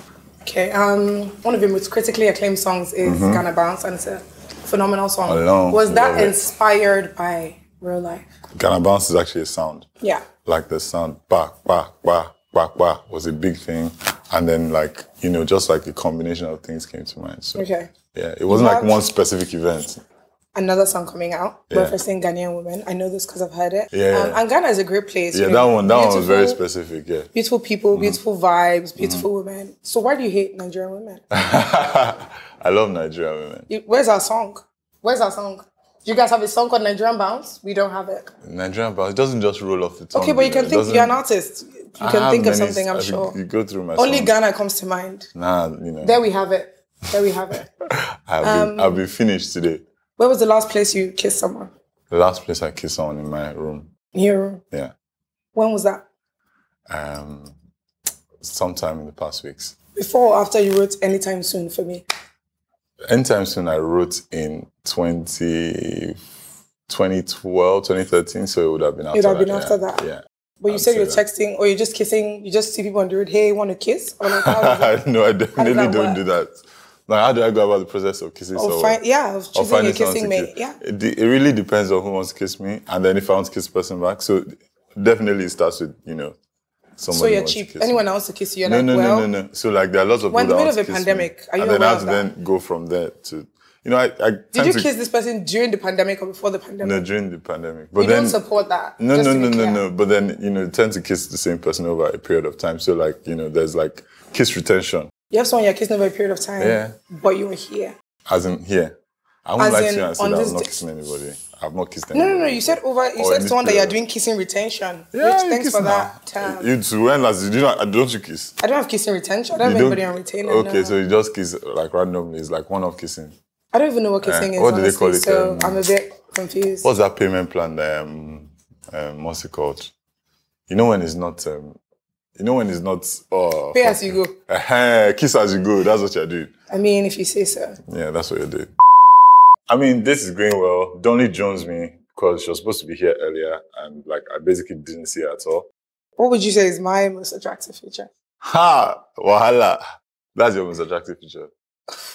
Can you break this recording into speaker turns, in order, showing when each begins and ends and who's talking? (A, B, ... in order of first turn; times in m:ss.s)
0:00.4-0:08.3 A
0:03.0-0:03.5 B
0:05.2-0:06.4 B
0:08.5-0:09.9 B
0:10.0-0:10.3 A
0:10.4-0:20.0 B
0:17.6-0:17.9 A
0:18.5-0:19.0 A
0:20.6-0:26.6 A
0:21.7-0:22.0 B
0:23.9-0:24.4 B
0:25.3-0:27.3 B
0:27.3-0:31.2 A
0:27.9-0:28.2 B
0:29.0-0:29.3 B
0:31.3-0:33.7 B
0:33.7-0:38.3 A
0:38.4-0:41.2 B
0:40.1-0:43.4 A
0:42.0-0:44.3 B
0:44.0-0:45.3 A
0:45.4-0:46.2 B
0:46.0-0:47.7 A
0:47.9-0:49.8 B
0:48.4-0:49.0 A
0:50.2-0:51.7 A
0:52.1-0:53.9 B
0:54.1-0:54.6 A
0:55.6-0:56.0 A
0:56.9-0:57.6 B
0:58.4-0:59.7 B
1:00.0-1:02.0 A
1:03.1-1:06.2 B
1:06.9-1:11.2 B
1:09.1-1:10.0 A
1:10.6-1:15.0 A
1:14.2-1:19.0 B
1:15.6-1:16.2 A
1:18.6-1:20.8 A
1:19.5-1:26.4 B
1:27.0-1:28.0 B
1:27.1-1:29.3 A
1:28.6-1:34.9 B
1:30.3-1:32.3 A
1:34.5-1:37.1 A
1:36.8-1:38.4 B
1:38.0-1:39.9 A
1:39.0-1:45.1 B
1:45.3-1:47.9 A
1:46.6-1:47.0 B
1:48.3-1:48.9 B
1:49.4-1:54.0 B
1:49.6-1:50.8 A
1:52.1-1:56.7 A
1:55.1-1:58.6 B
1:58.6-2:01.0 A
1:59.6-2:03.4 B
2:03.7-2:06.9 A
2:04.2-2:05.9 B
2:06.8-2:09.9 B
2:10.7-2:11.8 B
2:12.4-2:16.5 B
2:13.7-2:14.4 A
2:16.7-2:17.8 A
2:17.9-2:18.7 B
2:19.7-2:25.7 B
2:26.2-2:28.1 A
2:28.4-2:29.8 B
2:30.4-2:31.5 B